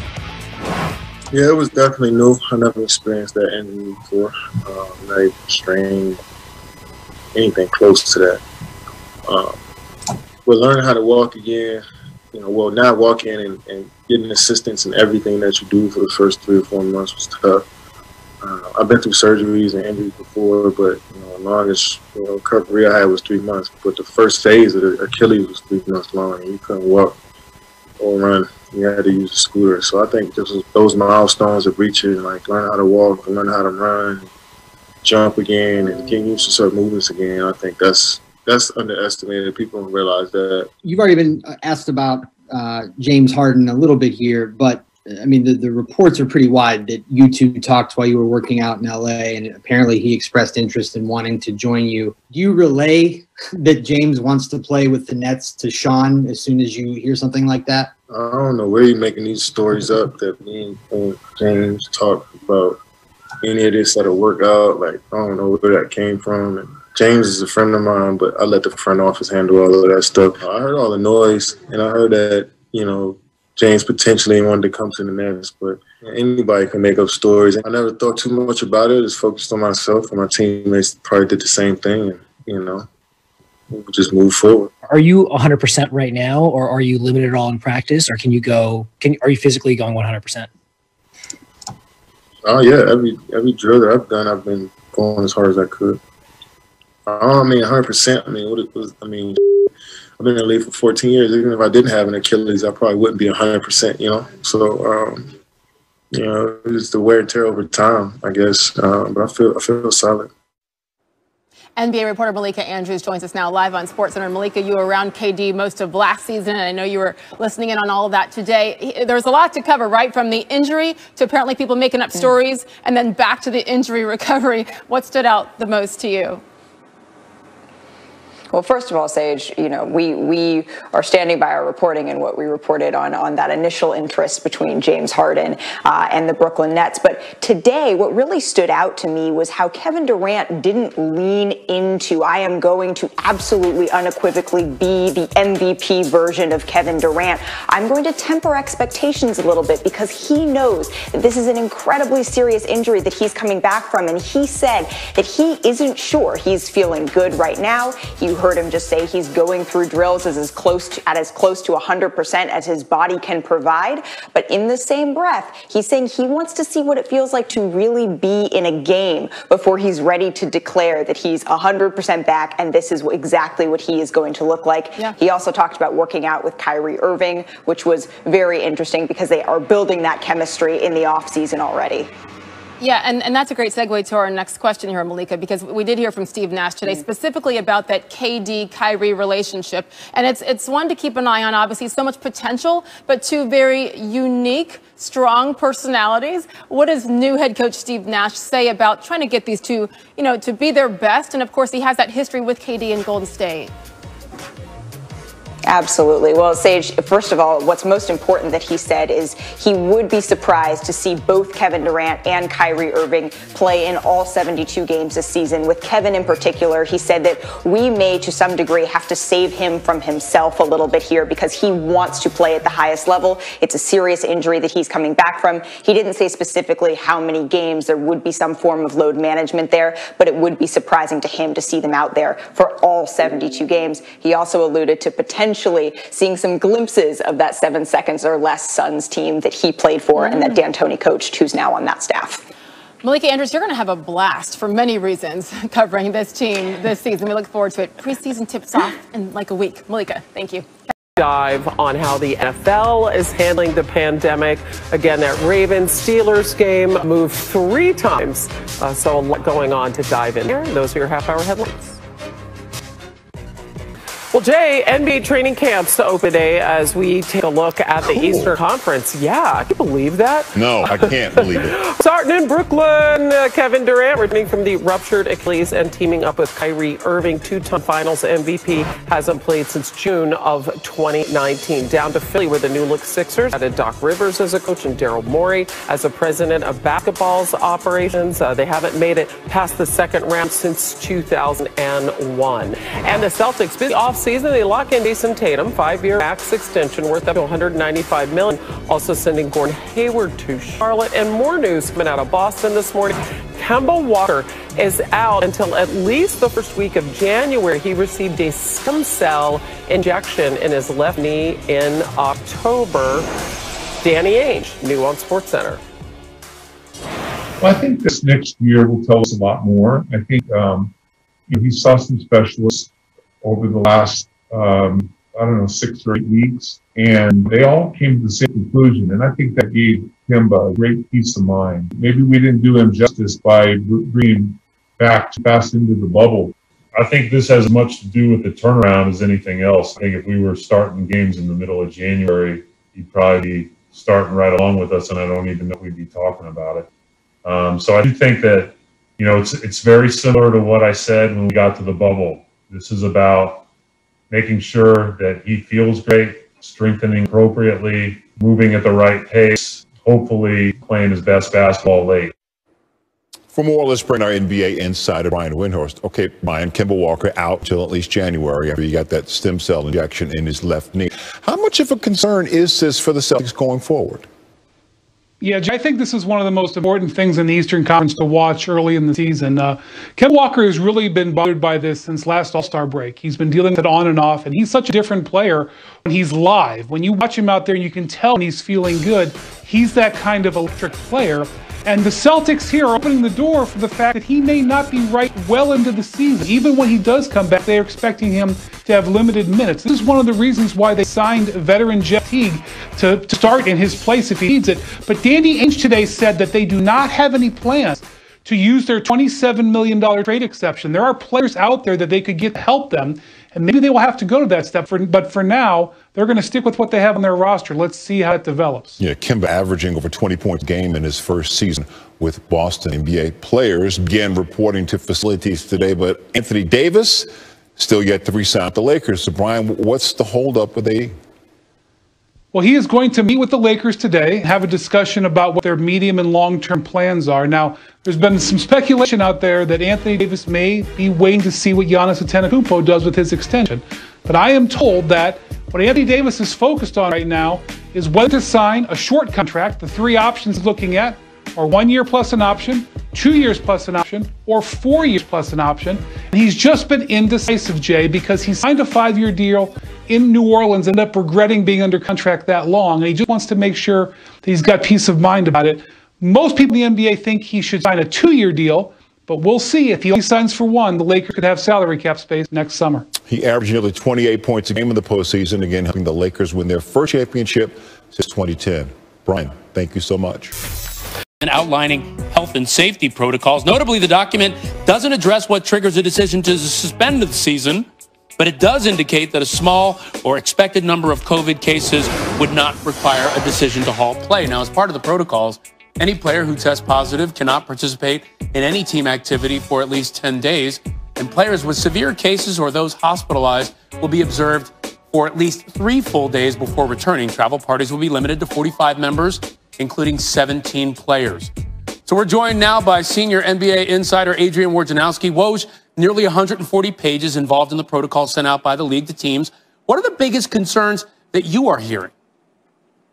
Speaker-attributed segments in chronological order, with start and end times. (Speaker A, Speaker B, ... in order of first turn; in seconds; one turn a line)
Speaker A: 1.3-6.2
Speaker A: 7.3-8.4
Speaker A: 9.3-9.6
Speaker A: 10.5-17.6
Speaker A: 18.4-27.2
Speaker A: 28.0-34.3
Speaker A: 35.0-40.7
Speaker B: 40.8-58.0
Speaker A: 58.1-62.8
Speaker A: 63.4-82.8
Speaker A: 83.7-84.7
Speaker C: 84.8-90.5
Speaker A: 92.5-96.0
Speaker A: 97.1-99.4
Speaker A: 100.2-105.3
Speaker A: 106.1-110.3
Speaker D: 111.8-126.4
Speaker E: 128.5-182.1
Speaker D: 182.8-203.7
Speaker E: 205.7-242.5
Speaker D: 240.2-240.6
Speaker D: 243.0-250.7
Speaker F: 251.2-262.0
Speaker F: 264.3-313.3
Speaker G: 268.1-268.6
Speaker G: 270.6-271.8
Speaker F: 314.0-315.8
Speaker H: 317.6-320.9
Speaker H: 321.5-322.9
Speaker H: 323.4-336.5
Speaker I: 336.9-346.9
Speaker I: 347.4-353.6
Speaker I: 354.3-362.3
Speaker G: 363.5-374.3
Speaker J: 375.4-419.0
Speaker G: 419.0-431.1
Speaker J: 432.5-473.1
Speaker G: 473.3-480.5
Speaker K: 481.4-487.9
Speaker K: 488.4-511.5
Speaker K: 512.1-522.1